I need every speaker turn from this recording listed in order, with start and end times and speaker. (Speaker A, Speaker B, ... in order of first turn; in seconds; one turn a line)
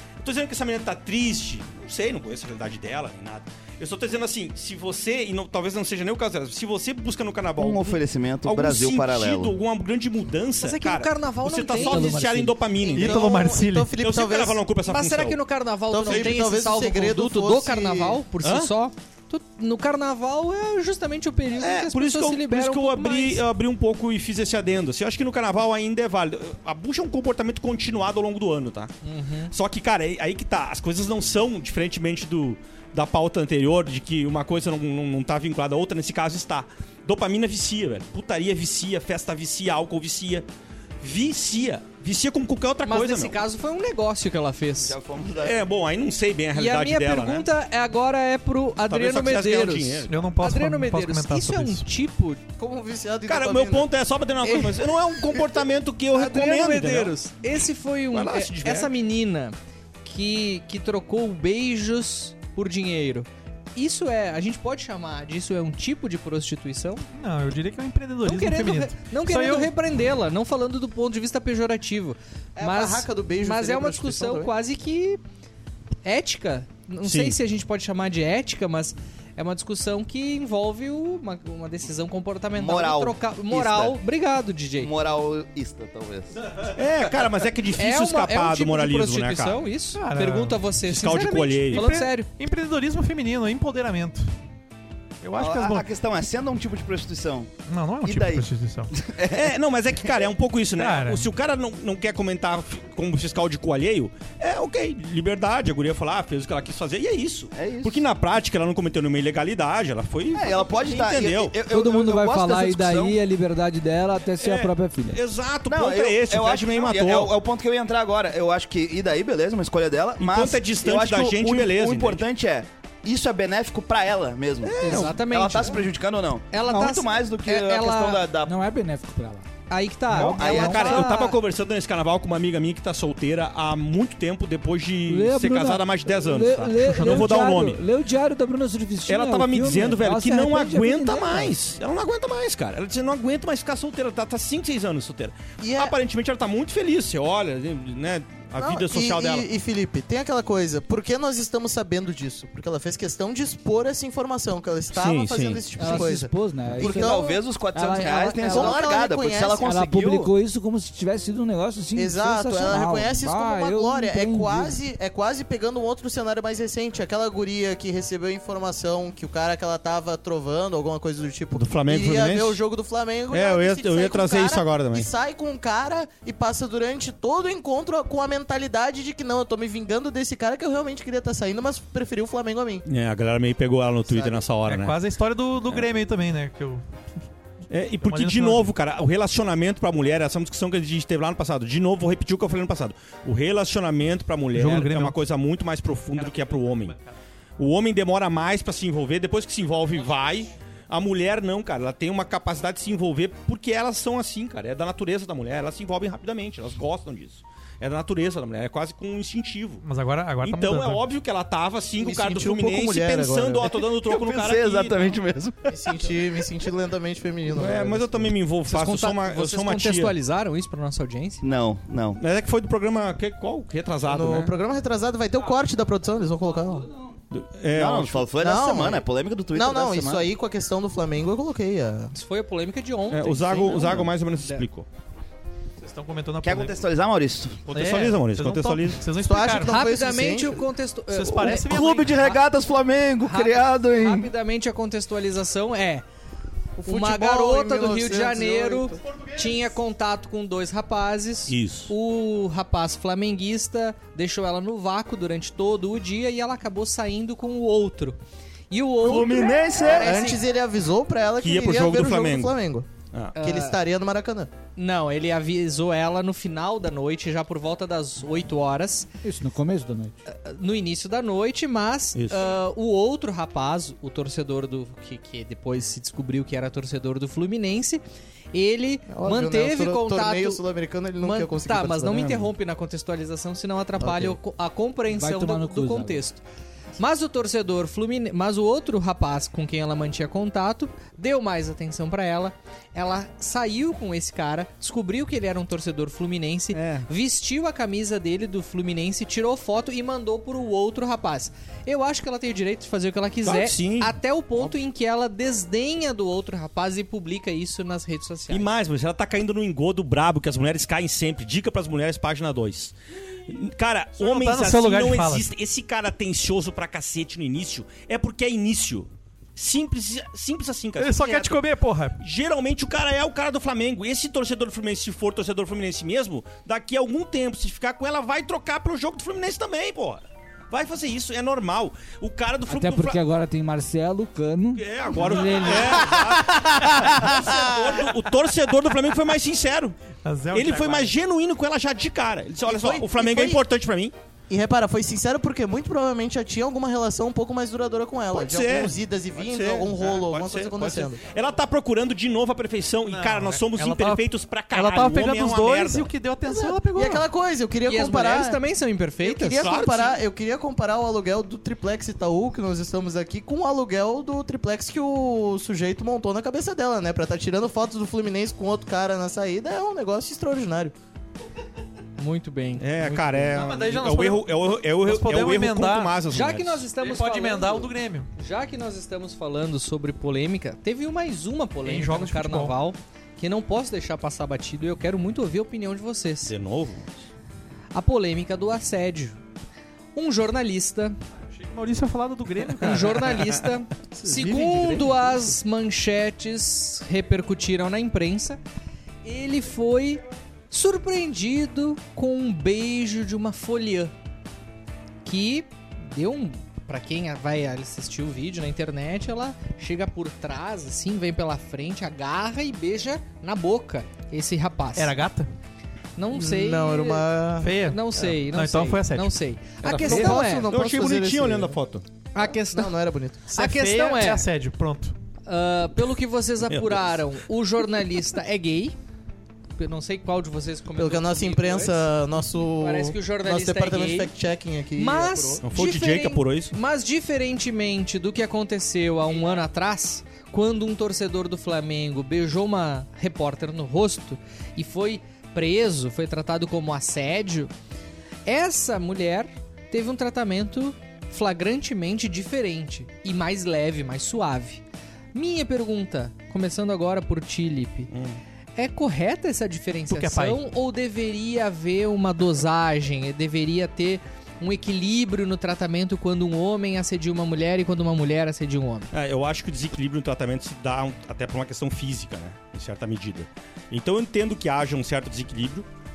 Speaker A: 0.2-13.2
Speaker B: 7.6-9.5
Speaker C: 10.6-13.0
Speaker D: 11.8-13.9
Speaker E: 12.9-14.6
Speaker A: 14.0-15.4
Speaker C: 14.9-23.4
Speaker E: 15.9-18.2
Speaker A: 16.1-16.3
Speaker A: 18.4-18.7
Speaker A: 21.6-28.9
Speaker C: 29.0-29.5
Speaker A: 29.5-40.5
Speaker A: 41.0-43.4
Speaker C: 42.8-44.9
Speaker B: 44.8-45.6
Speaker A: 45.4-47.5
Speaker C: 46.5-52.4
Speaker A: 48.9-50.2
Speaker D: 50.1-51.9
Speaker E: 52.6-53.9
Speaker A: 53.2-57.1
Speaker C: 54.4-54.9
Speaker C: 56.1-67.1
Speaker A: 58.1-58.9
Speaker D: 67.1-69.7
Speaker C: 68.2-75.2
Speaker E: 72.6-74.5
Speaker C: 76.0-84.9
Speaker A: 77.0-77.4
Speaker B: 82.5-84.0
Speaker B: 84.8-86.7
Speaker A: 86.7-89.6
Speaker C: 87.8-92.3
Speaker D: 89.9-90.6
Speaker A: 90.9-91.9
Speaker D: 91.7-94.3
Speaker D: 95.2-95.9
Speaker B: 95.3-97.5
Speaker D: 97.7-98.9
Speaker B: 98.0-99.5
Speaker A: 99.3-111.5
Speaker D: 100.8-101.3
Speaker B: 107.5-108.0
Speaker B: 110.3-113.2
Speaker F: 111.7-115.2
Speaker A: 114.4-117.3
Speaker B: 115.7-128.5
Speaker A: 120.2-122.2
Speaker A: 124.6-125.2
Speaker C: 124.8-125.8
Speaker C: 126.5-128.2
Speaker F: 128.4-129.5
Speaker C: 129.7-131.4
Speaker F: 130.1-131.1
Speaker B: 130.2-130.9
Speaker A: 130.2-137.8
Speaker F: 135.1-141.5
Speaker D: 136.8-137.3
Speaker A: 139.1-149.5
Speaker E: 145.6-145.9
Speaker E: 148.6-159.8
Speaker A: 154.9-155.6
Speaker F: 155.8-157.2
Speaker B: 156.8-160.3
Speaker F: 157.7-158.9
Speaker F: 159.6-164.8
Speaker E: 161.9-182.8
Speaker A: 171.6-172.6
Speaker A: 173.3-175.1
Speaker A: 182.9-185.0
Speaker E: 184.1-184.5
Speaker D: 184.6-186.8
Speaker A: 187.7-196.9
Speaker D: 188.0-188.7
Speaker D: 194.5-195.2
Speaker D: 196.1-197.1
Speaker A: 197.6-209.8
Speaker D: 209.8-211.0
Speaker A: 210.4-215.2
Speaker E: 212.0-213.7
Speaker B: 213.9-215.9
Speaker E: 215.7-218.3
Speaker A: 217.5-220.1
Speaker C: 218.7-221.4
Speaker B: 221.4-222.2
Speaker A: 222.2-224.5
Speaker E: 224.1-226.9
Speaker A: 227.3-228.2
Speaker B: 227.7-230.3
Speaker E: 228.4-232.1
Speaker C: 232.1-234.6
Speaker A: 233.1-234.9
Speaker D: 235.8-236.9
Speaker B: 236.4-237.7
Speaker A: 237.7-239.0
Speaker D: 237.7-239.8
Speaker E: 239.2-240.6
Speaker C: 239.7-241.7
Speaker D: 241.1-242.4
Speaker B: 241.3-244.3
Speaker C: 243.2-246.0
Speaker C: 246.8-258.2
Speaker E: 246.8-249.0
Speaker D: 249.0-249.7
Speaker A: 251.5-251.9
Speaker C: 258.7-260.4
Speaker B: 259.0-260.2
Speaker E: 259.8-262.9
Speaker A: 261.4-262.5
Speaker C: 263.4-263.8
Speaker E: 263.4-264.5
Speaker C: 264.8-269.1
Speaker F: 269.2-270.2
Speaker C: 270.2-280.6
Speaker A: 272.1-272.5
Speaker E: 279.1-282.4
Speaker C: 281.2-286.4
Speaker E: 284.0-284.3
Speaker F: 285.1-286.2
Speaker C: 287.0-308.7
Speaker A: 296.7-297.1
Speaker A: 303.4-304.1
Speaker A: 308.5-312.9
Speaker A: 313.5-321.6
Speaker D: 314.2-315.5
Speaker D: 321.0-322.2
Speaker A: 322.2-333.2
Speaker F: 332.7-336.4
Speaker A: 334.8-340.0
Speaker E: 335.5-337.8
Speaker D: 340.2-341.1
Speaker A: 340.5-344.1
Speaker E: 342.7-343.6
Speaker E: 344.5-351.2
Speaker A: 348.3-356.1
Speaker D: 353.1-357.3
Speaker E: 356.4-358.6
Speaker C: 357.9-359.6
Speaker A: 359.2-360.2
Speaker E: 359.4-370.9
Speaker C: 372.2-373.7
Speaker A: 372.8-376.9
Speaker D: 373.5-376.2
Speaker C: 376.3-386.5
Speaker D: 377.0-378.3
Speaker D: 381.8-382.8
Speaker A: 386.4-387.1
Speaker C: 387.9-389.4
Speaker C: 390.1-391.2
Speaker D: 391.5-393.4
Speaker C: 392.8-398.6
Speaker D: 394.1-395.6
Speaker C: 399.2-404.1
Speaker C: 405.2-415.1
Speaker D: 414.9-415.5
Speaker C: 416.2-417.3
Speaker E: 416.3-417.7
Speaker D: 417.6-419.4
Speaker C: 417.8-420.7
Speaker E: 419.8-421.8
Speaker A: 420.1-422.0
Speaker C: 422.3-422.9
Speaker E: 422.4-423.6
Speaker C: 423.5-424.5
Speaker D: 423.6-425.1
Speaker C: 425.4-428.9
Speaker A: 426.7-427.2
Speaker C: 429.8-432.1
Speaker E: 431.0-435.6
Speaker C: 432.8-434.3
Speaker C: 434.9-447.7
Speaker A: 435.6-436.7
Speaker C: 448.4-454.8
Speaker C: 455.3-458.1
Speaker A: 458.1-458.4
Speaker C: 458.8-469.1
Speaker D: 460.1-460.6
Speaker A: 469.1-475.9